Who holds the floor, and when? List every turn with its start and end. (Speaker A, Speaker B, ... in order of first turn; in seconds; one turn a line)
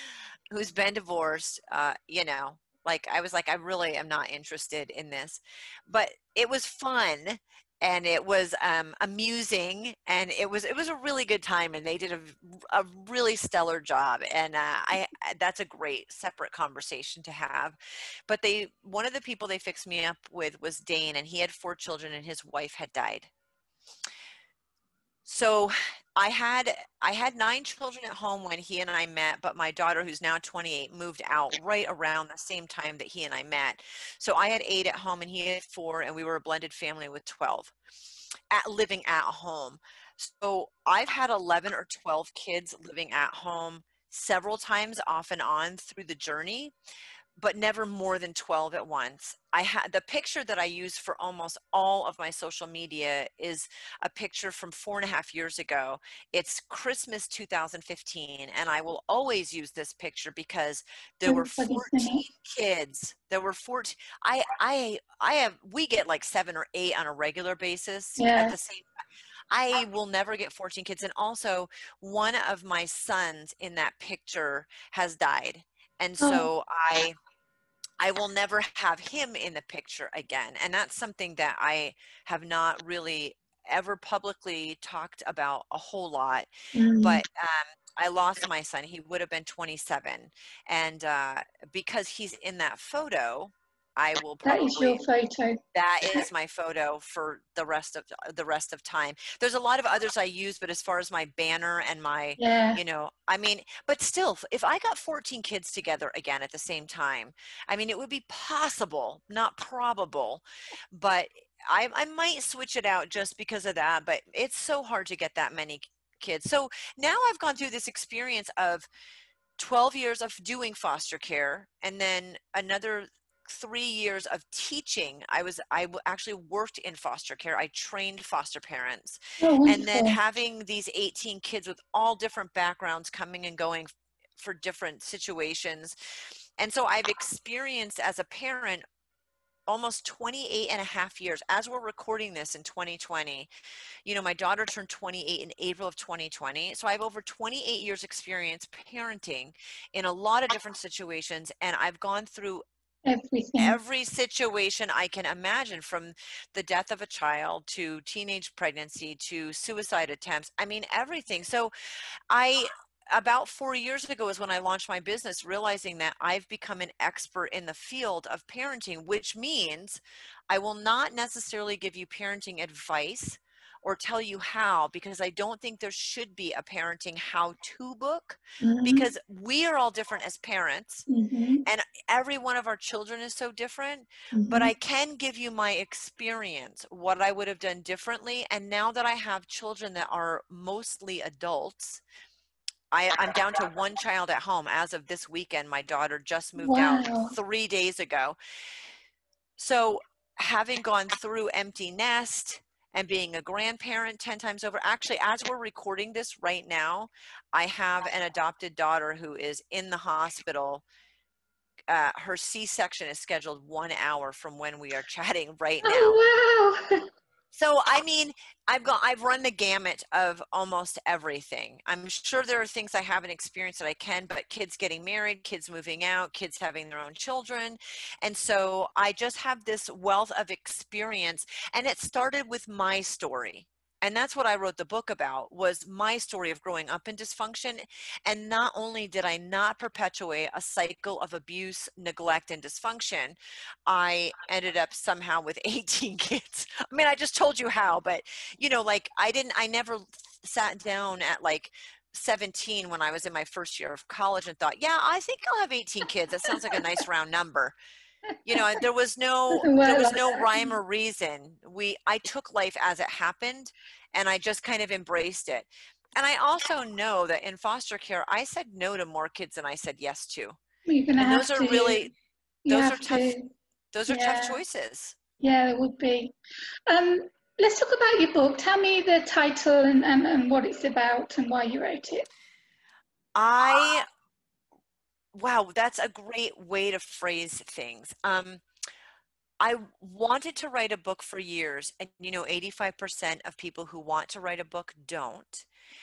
Speaker A: 0.5-17.8
Speaker A: 18.3-23.3
Speaker A: 25.3-37.7
Speaker A: 38.5-46.7
Speaker A: 47.4-68.8
Speaker B: 61.3-62.2
Speaker B: 68.2-68.5
Speaker A: 69.5-77.2
Speaker B: 76.2-76.5
Speaker A: 78.0-86.5
Speaker B: 86.7-87.2
Speaker A: 87.0-95.0
Speaker B: 94.4-95.6
Speaker A: 95.7-118.9
Speaker B: 102.4-102.8
Speaker A: 119.6-135.9
Speaker B: 129.4-130.2
Speaker A: 136.6-138.8
Speaker A: 139.7-143.5
Speaker A: 144.1-152.6
Speaker B: 153.1-153.8
Speaker A: 153.6-161.7
Speaker A: 162.3-181.1
Speaker B: 178.6-179.1
Speaker B: 181.1-181.6
Speaker A: 181.7-192.0
Speaker B: 184.3-184.7
Speaker A: 192.9-198.4
Speaker B: 196.6-197.3
Speaker A: 199.6-210.8
Speaker A: 211.9-216.2
Speaker B: 215.8-217.1
Speaker A: 217.5-257.8
Speaker A: 258.4-270.6
Speaker B: 258.5-258.8
Speaker B: 259.5-260.7
Speaker B: 270.9-272.0
Speaker A: 271.2-272.1
Speaker B: 272.7-273.5
Speaker A: 272.7-273.4
Speaker A: 273.9-275.2
Speaker B: 274.1-274.6
Speaker B: 275.4-276.4
Speaker B: 276.9-282.3
Speaker A: 283.4-284.1
Speaker A: 285.3-288.6
Speaker A: 289.6-295.7